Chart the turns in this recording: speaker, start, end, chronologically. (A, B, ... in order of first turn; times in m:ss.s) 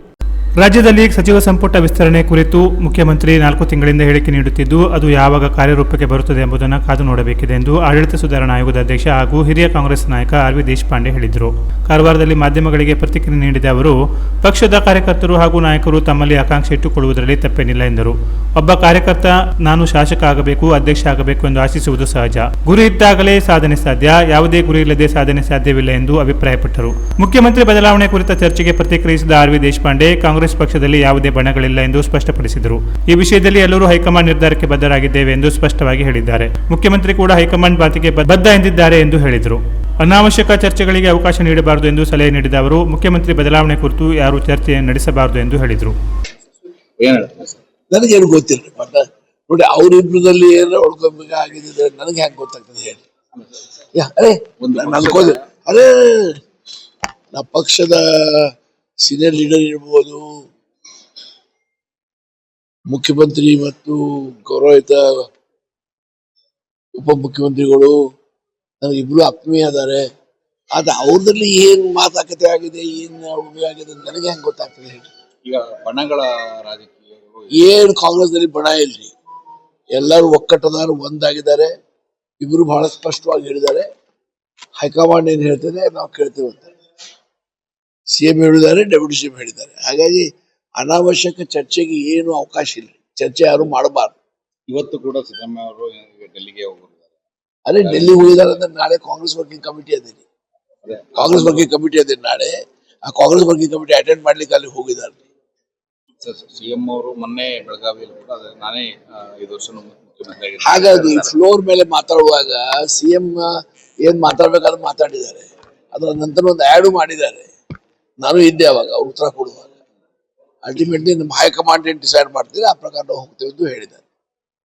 0:00.6-0:45.9 A
0:47.0-0:47.6 B
0:47.9-0:53.0 C
0:53.9-0:56.3 C
0:54.6-0:55.4 B
0:57.3-0:58.5 C
0:59.0-1:00.2 C
1:02.9-1:05.0 C
1:07.0-1:07.9 C
1:08.8-1:10.0 C
1:10.7-1:15.1 C
1:15.4-1:17.7 B
1:17.6-1:19.1 C
1:19.9-1:21.7 C
1:22.4-1:23.8 C
1:24.8-1:26.7 C
1:28.1-1:30.3 C
1:30.8-1:34.2 C
1:34.7-1:37.1 B
1:37.6-1:40.2 C
1:37.8-1:38.5 B
1:40.8-1:41.6 B
1:41.2-1:42.5 C
1:43.1-1:45.2 C
1:46.2-1:51.3 B
1:50.6-1:53.4 C
1:54.0-1:57.5 C
1:58.2-1:59.7 C
2:00.6-2:04.0 C